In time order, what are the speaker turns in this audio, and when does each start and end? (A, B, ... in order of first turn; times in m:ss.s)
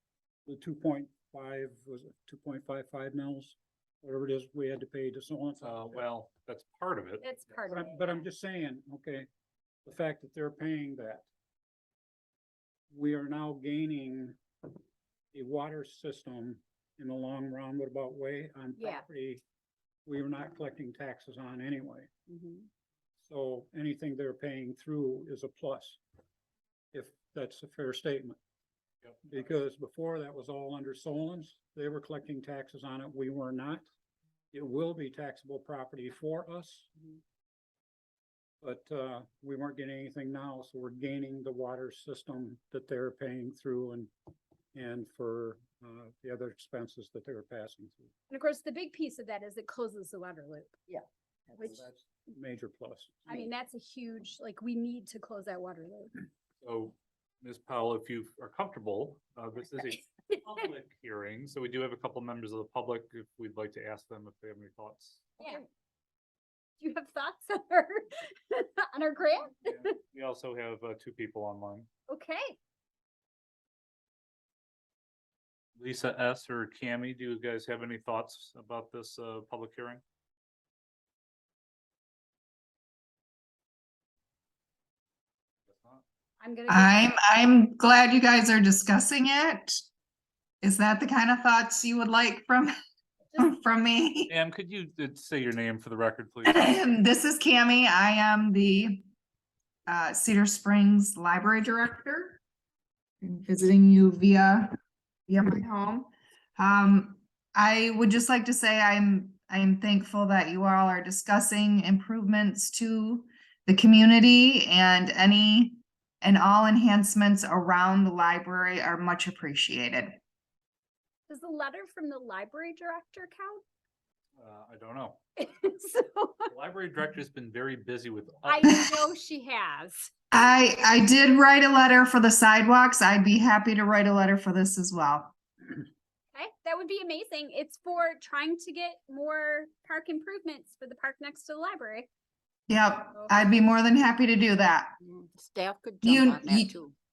0:00.4-0:06.1 A
0:05.6-0:07.3 B
0:07.2-0:08.2 C
0:07.6-0:09.3 A
0:09.8-0:11.2 A
0:12.9-0:14.4 A
0:15.3-0:19.4 A
0:18.8-0:19.0 C
0:20.0-0:22.1 A
0:22.3-0:22.7 D
0:23.2-0:26.0 A
0:26.9-0:28.4 A
0:29.0-0:29.5 B
0:29.2-0:33.8 A
0:34.5-0:36.9 A
0:38.6-0:44.1 A
0:44.7-0:48.1 A
0:48.3-0:50.7 C
0:50.9-0:51.8 D
0:51.6-0:51.8 C
0:51.7-0:53.3 A
0:53.3-0:56.1 C
0:56.6-1:05.4 B
1:00.3-1:00.7 C
1:05.4-1:05.6 C
1:06.8-1:09.9 C
1:09.6-1:11.9 B
1:12.1-1:12.6 C
1:15.8-1:20.0 B
1:25.7-1:26.0 B
1:26.4-1:27.1 C
1:26.7-1:29.8 E
1:30.6-1:32.7 E
1:33.4-1:34.3 E
1:34.3-1:36.8 B
1:36.4-1:39.0 E
1:39.9-1:42.4 E
1:43.2-1:44.7 E
1:45.3-2:00.2 E
2:01.3-2:03.6 C
2:04.4-2:05.2 B
2:05.4-2:06.5 C
2:06.5-2:08.7 B
2:08.4-2:10.4 C
2:08.6-2:09.1 E
2:10.3-2:15.3 E
2:16.3-2:22.1 C
2:22.7-2:24.9 E
2:23.1-2:23.5 C
2:25.0-2:26.9 D
2:26.0-2:26.7 E